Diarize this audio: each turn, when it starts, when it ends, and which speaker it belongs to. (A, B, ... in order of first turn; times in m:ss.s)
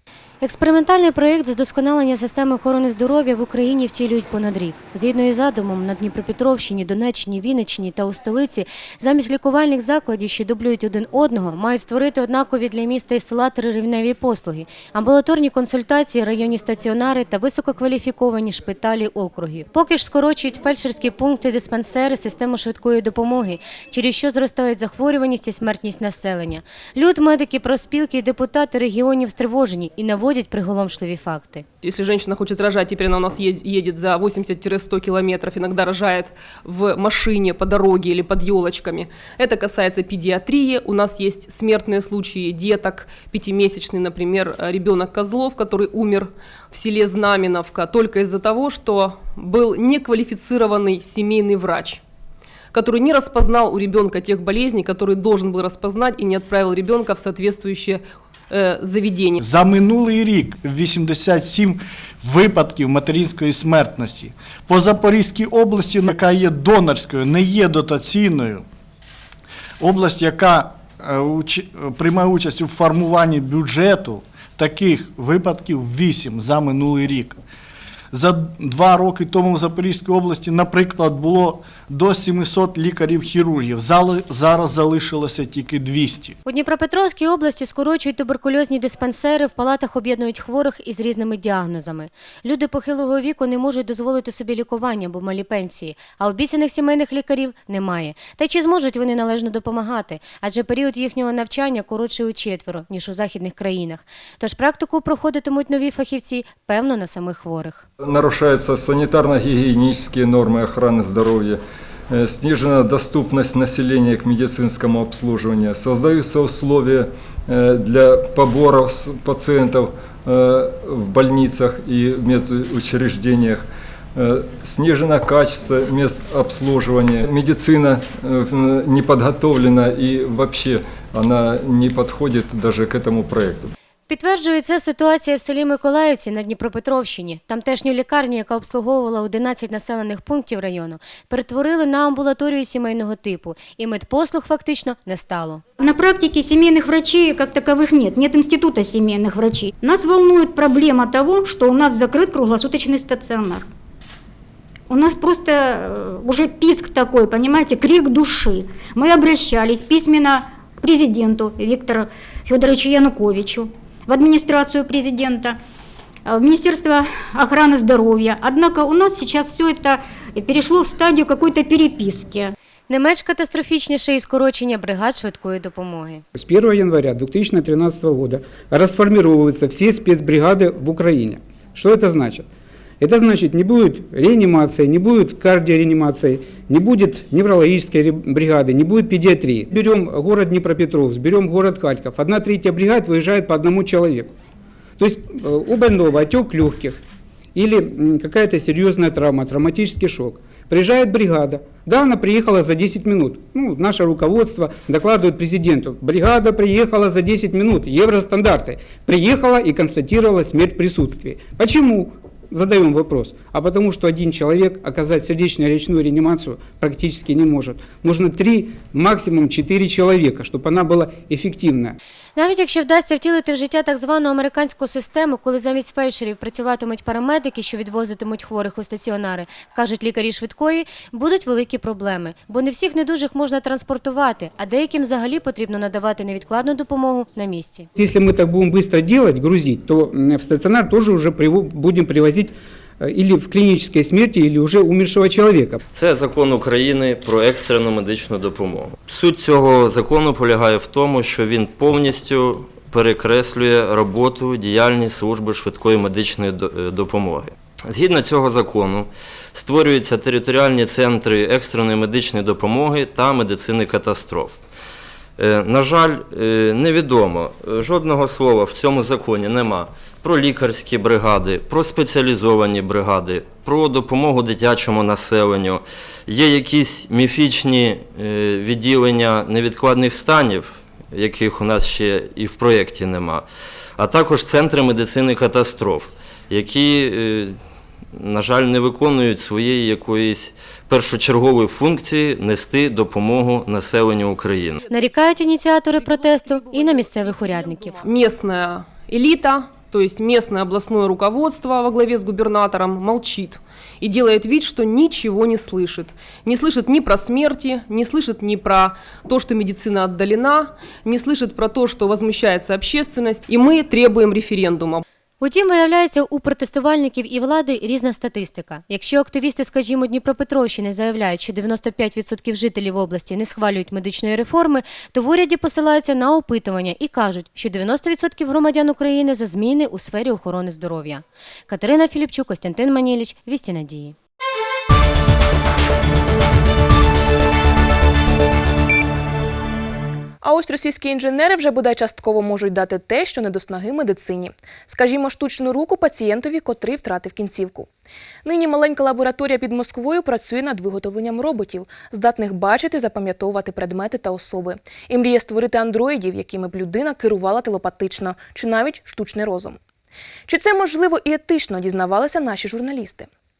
0:00.4-0:31.6 A
0:31.8-0:52.0 B
0:52.7-0:59.4 B
0:59.4-1:08.6 C
1:09.8-1:17.4 C
1:18.1-1:26.4 C
1:26.4-1:47.8 A
1:48.0-2:13.7 D
2:14.1-2:25.6 A
2:25.8-2:33.7 E
2:34.9-2:45.6 E
2:46.2-2:52.5 E
2:52.9-2:56.2 A
2:56.3-3:02.5 F
3:03.0-3:14.3 F
3:15.0-3:17.0 F
3:17.5-3:42.0 F
3:42.4-3:57.9 A
3:57.9-4:05.8 F
4:05.9-4:24.6 G
4:25.4-4:43.4 G
4:44.0-4:47.6 G
4:48.1-4:54.8 G
4:54.9-4:58.0 A
4:58.0-5:15.0 B
5:15.4-5:34.2 A
5:40.4-5:47.9 H
5:48.4-5:59.8 H
6:00.5-6:03.3 H